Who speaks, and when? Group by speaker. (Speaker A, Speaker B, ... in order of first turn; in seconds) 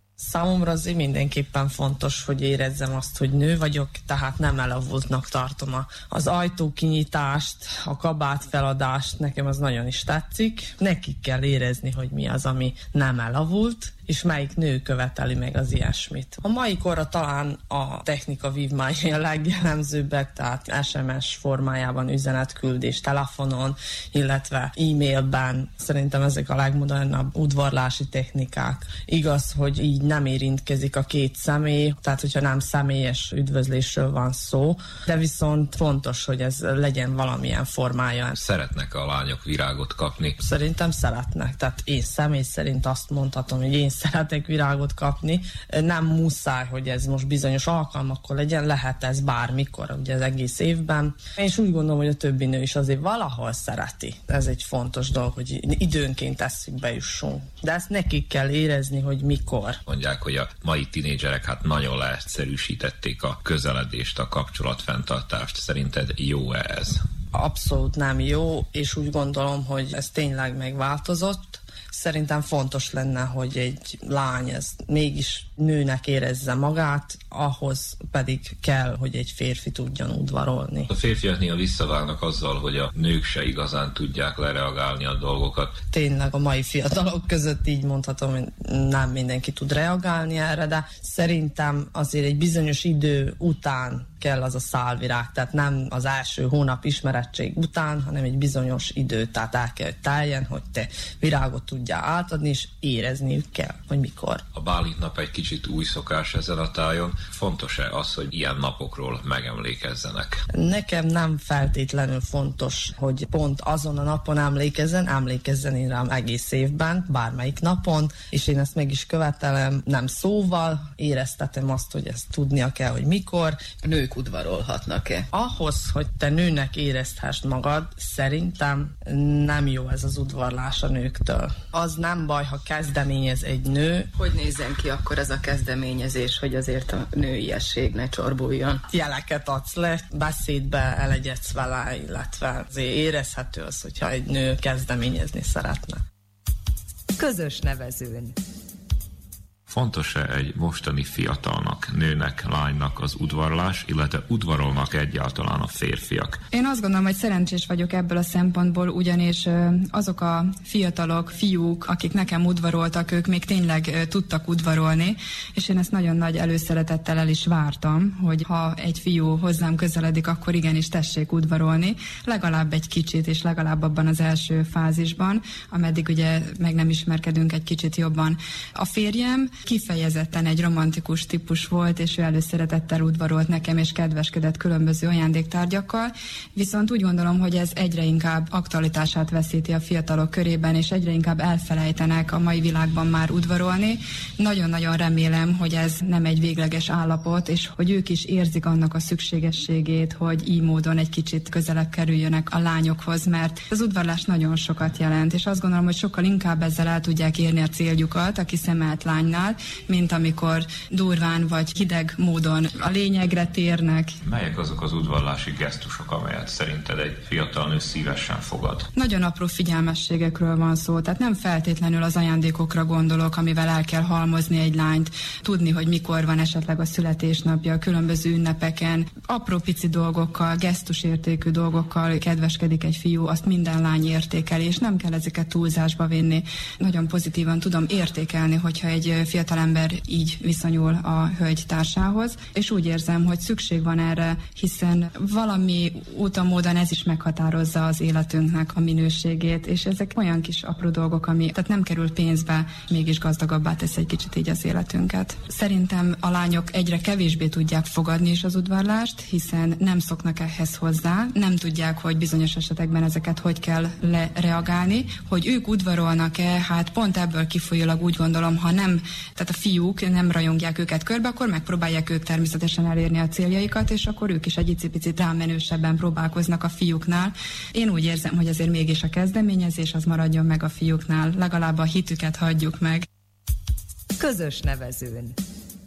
Speaker A: 0.2-38.4, 40.4-59.8, 67.3-80.9, 85.9-104.4, 110.5-123.7, 125.3-134.1, 138.8-146.0
Speaker B: 38.4-40.4, 59.9-67.0, 80.9-85.8, 104.5-110.4, 149.7-156.4, 214.2-218.9
Speaker C: 123.8-125.3, 134.2-138.8
Speaker D: 147.2-148.3, 284.2-285.4
Speaker E: 156.5-214.1, 218.9-283.1